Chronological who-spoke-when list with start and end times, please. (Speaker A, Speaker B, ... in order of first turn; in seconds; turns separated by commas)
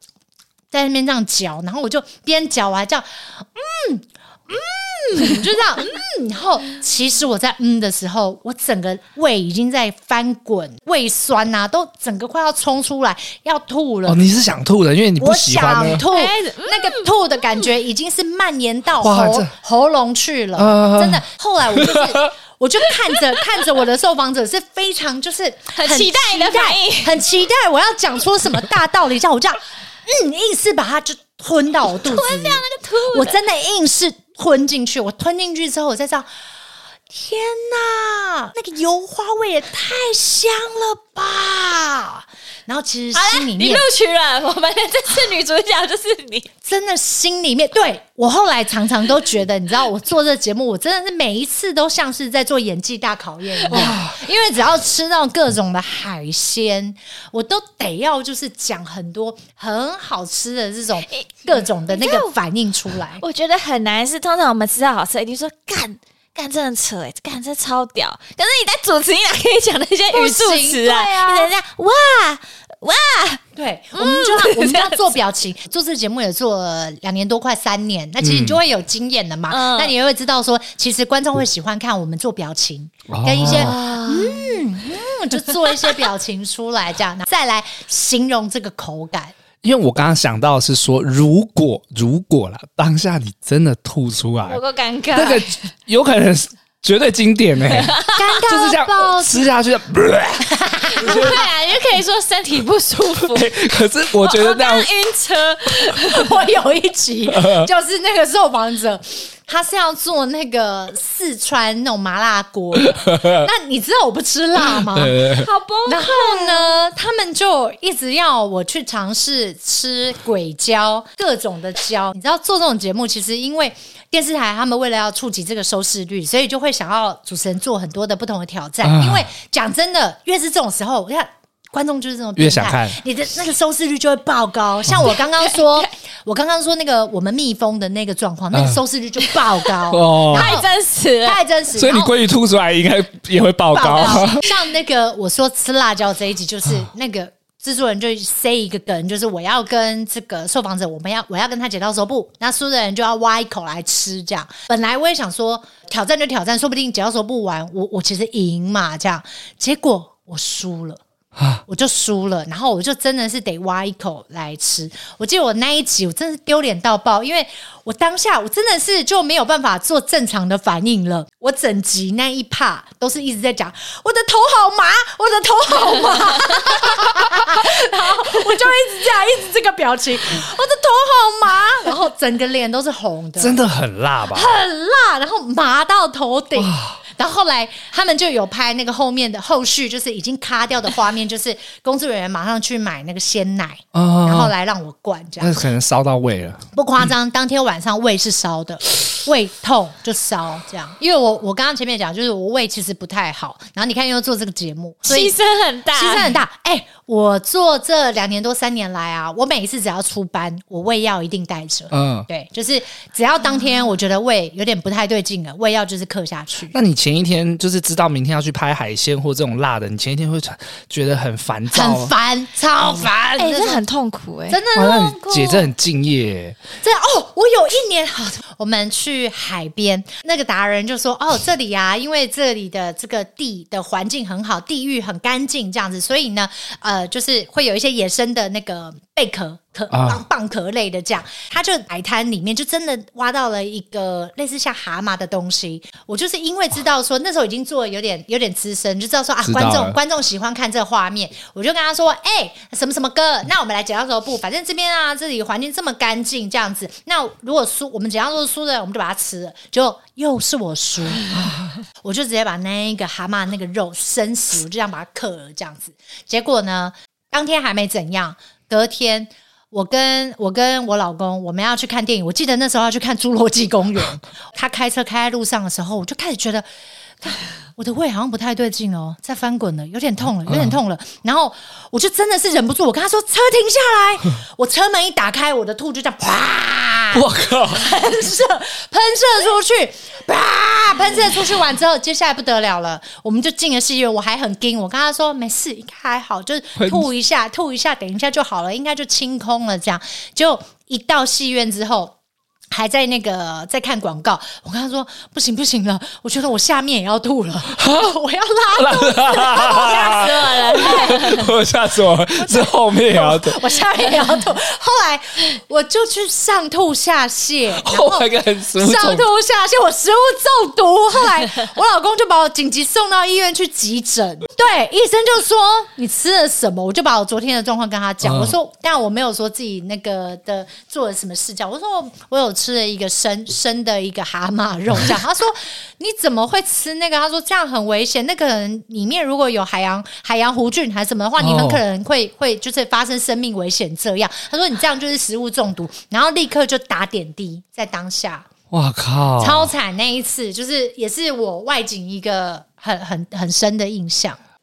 Speaker A: 0.7-14.2, Speaker B: 14.1-16.0, Speaker A: 15.2-36.3, Speaker C: 16.1-17.6, Speaker B: 19.0-19.5, Speaker B: 20.6-22.3, Speaker C: 25.8-27.2, Speaker C: 32.0-33.4, Speaker A: 37.1-43.9, Speaker C: 43.1-46.5, Speaker A: 46.6-63.2, Speaker C: 53.7-54.0, Speaker B: 53.7-54.2, Speaker C: 61.1-62.3, Speaker C: 63.2-73.4, Speaker A: 70.1-71.5, Speaker A: 73.5-89.3, Speaker C: 73.9-75.1, Speaker B: 78.2-78.6, Speaker C: 79.5-79.9, Speaker B: 83.1-83.8, Speaker C: 83.4-84.6, Speaker B: 89.6-94.6, Speaker C: 94.5-95.6, Speaker B: 95.1-101.4, Speaker C: 97.7-98.3, Speaker A: 98.1-99.5, Speaker A: 100.4-101.4, Speaker C: 101.0-103.7, Speaker B: 103.2-104.9, Speaker C: 104.2-106.3, Speaker A: 106.0-115.2, Speaker B: 107.3-107.7, Speaker B: 113.0-113.4, Speaker B: 114.6-115.5, Speaker C: 115.3-116.8, Speaker A: 115.8-140.7, Speaker B: 128.8-129.3, Speaker B: 132.4-133.0, Speaker C: 135.3-135.8, Speaker B: 138.5-138.8, Speaker B: 139.9-140.5, Speaker C: 140.2-141.4, Speaker A: 141.2-142.1, Speaker B: 141.7-144.4, Speaker A: 143.7-161.0, Speaker B: 161.3-161.6, Speaker A: 161.7-183.6, Speaker B: 183.4-184.6, Speaker A: 184.3-195.6, Speaker B: 186.6-187.0, Speaker B: 193.9-194.5, Speaker B: 195.4-196.6, Speaker A: 196.7-205.3, Speaker C: 205.1-206.4, Speaker A: 205.9-216.7, Speaker B: 211.9-212.3, Speaker B: 216.7-222.1, Speaker A: 221.7-223.8, Speaker C: 223.4-224.6, Speaker A: 224.5-225.7, Speaker B: 224.7-226.6, Speaker A: 226.8-276.6, Speaker B: 239.9-240.2, Speaker B: 249.4-250.0, Speaker A: 277.2-302.1, Speaker B: 280.5-280.8, Speaker B: 287.1-287.9, Speaker B: 296.8-297.1, Speaker A: 302.7-311.4, Speaker B: 307.7-308.1, Speaker B: 308.7-313.6, Speaker C: 309.6-311.5, Speaker A: 312.4-348.5, Speaker B: 317.8-319.2, Speaker B: 328.2-328.5, Speaker B: 341.4-341.8, Speaker B: 348.7-349.7, Speaker A: 349.4-354.4